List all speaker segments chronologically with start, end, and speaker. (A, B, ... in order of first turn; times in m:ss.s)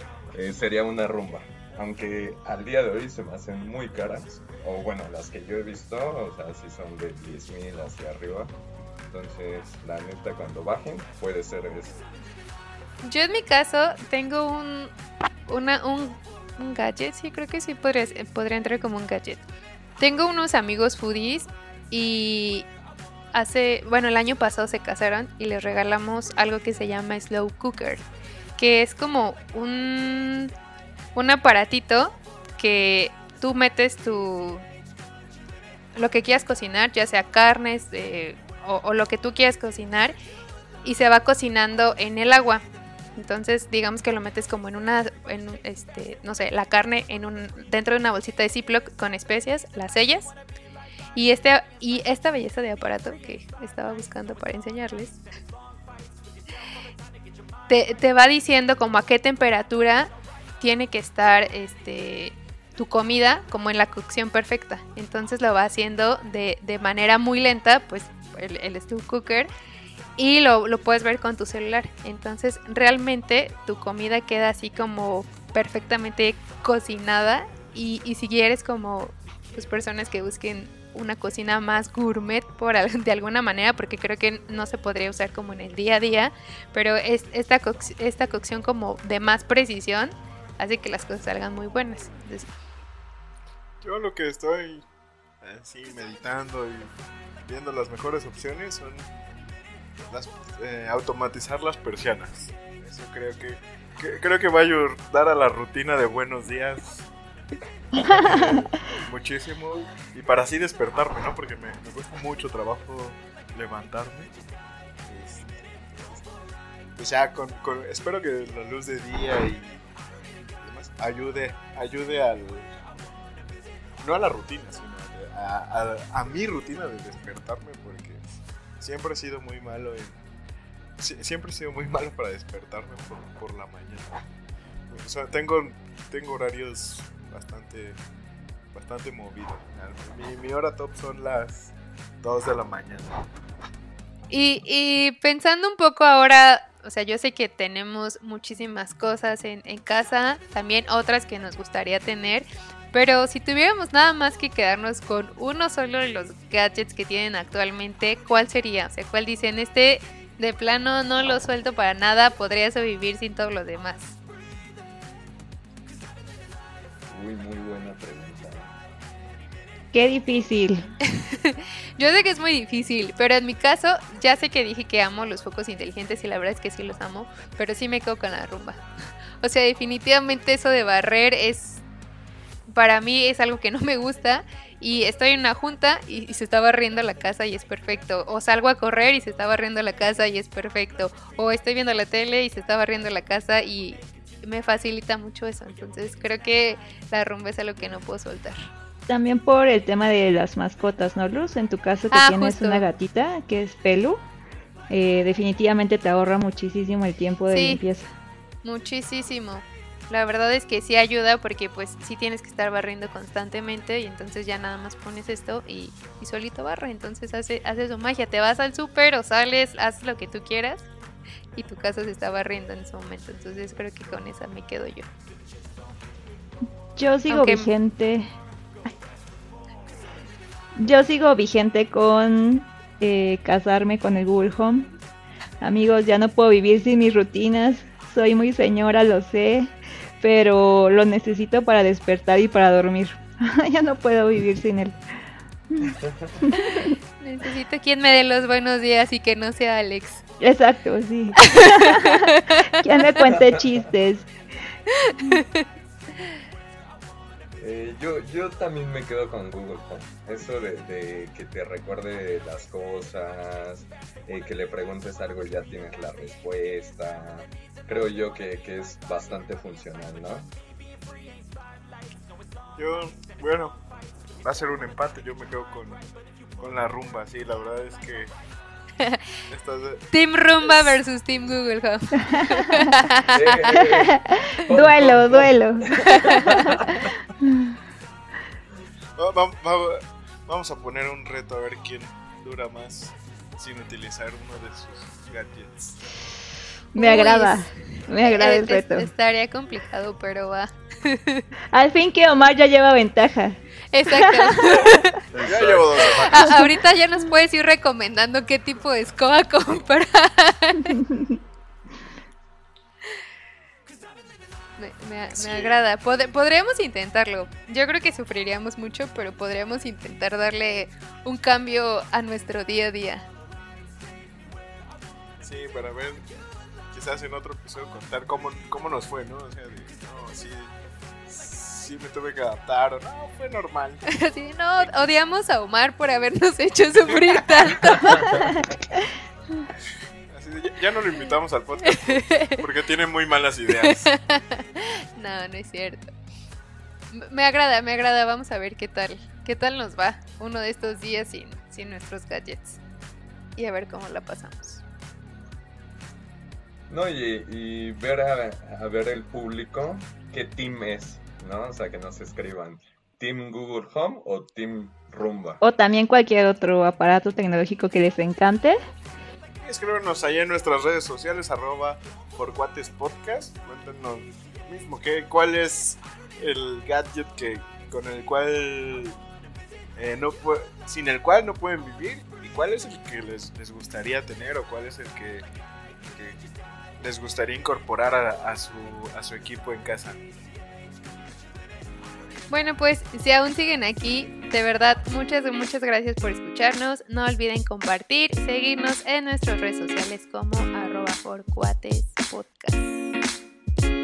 0:00.3-0:08.5 A
0:09.1-0:12.0 A
0:13.0-0:14.9 B
0:15.5-0:19.4 B
0:20.0-0:22.7 B
0:23.3-0:28.0 B
0:28.6-0:30.5 B
0:31.1-0:34.6 B
0:35.9-0:40.1 B
0:40.8-0:42.6 B
0:43.2-0:50.3 B
0:51.1-0:55.2 B
0:57.7-1:09.5 B
1:10.2-1:32.5 B
1:33.8-1:34.8 C
1:35.4-1:36.9 C
1:37.5-1:39.1 C
1:40.1-1:47.1 C
1:48.0-1:48.6 D
1:48.0-1:54.3 C
1:55.0-1:56.3 C
1:57.0-1:59.9 C
2:00.6-2:02.7 C
2:04.0-2:08.2 C
2:08.8-2:10.2 C
2:11.0-2:14.1 C
2:14.9-2:18.0 C
2:18.7-2:23.2 C
2:24.3-2:44.1 B
2:47.1-2:48.7 A
2:49.9-2:50.9 D
2:51.3-2:58.8 B
2:59.4-3:01.8 B
3:02.7-3:18.7 B
3:19.1-3:24.2 D
3:22.1-3:22.9 B
3:24.9-3:28.1 D
3:27.5-3:27.8 B
3:28.6-3:40.9 B
3:41.6-3:45.1 B
3:47.0-3:48.3 D
3:47.3-3:47.7 B
3:50.8-3:54.9 D
3:55.6-4:05.0 D
4:05.7-4:06.9 D
4:05.9-4:06.3 A
4:06.6-4:10.2 B
4:10.4-4:14.3 D
4:11.5-4:12.7 B
4:13.2-4:13.6 A
4:15.0-4:15.6 B
4:17.6-4:30.5 A
4:32.8-4:33.8 C
4:34.4-4:36.0 C
4:36.6-4:38.3 C
4:39.5-4:40.1 C
4:40.1-4:43.7 B
4:40.6-4:41.0 C
4:42.3-4:42.9 D
4:43.2-4:47.1 A
4:43.7-4:47.7 D
4:46.2-4:46.6 B
4:49.2-4:56.0 C
4:56.9-4:57.7 B
4:56.9-4:59.1 D
4:58.2-5:01.4 B
5:01.7-5:04.5 D
5:03.9-5:05.1 B
5:05.3-5:06.4 A
5:05.4-5:06.4 C
5:06.2-5:10.9 B
5:10.9-5:11.3 D
5:14.8-5:23.3 B
5:15.3-5:15.8 C
5:25.4-5:26.2 C
5:26.9-5:30.7 C
5:31.3-5:34.0 C
5:34.1-5:38.3 B
5:34.8-5:35.1 C
5:36.9-5:37.5 C
5:38.1-5:38.4 A
5:40.3-5:44.1 C
5:42.1-5:42.6 B
5:44.0-5:46.1 B
5:47.1-5:52.8 B
5:53.6-5:54.8 B
5:56.9-6:05.6 A
6:05.6-6:08.8 D
6:09.6-6:19.2 C
6:20.0-6:25.4 C
6:26.0-6:26.4 C
6:27.0-6:30.2 C
6:32.5-6:43.1 B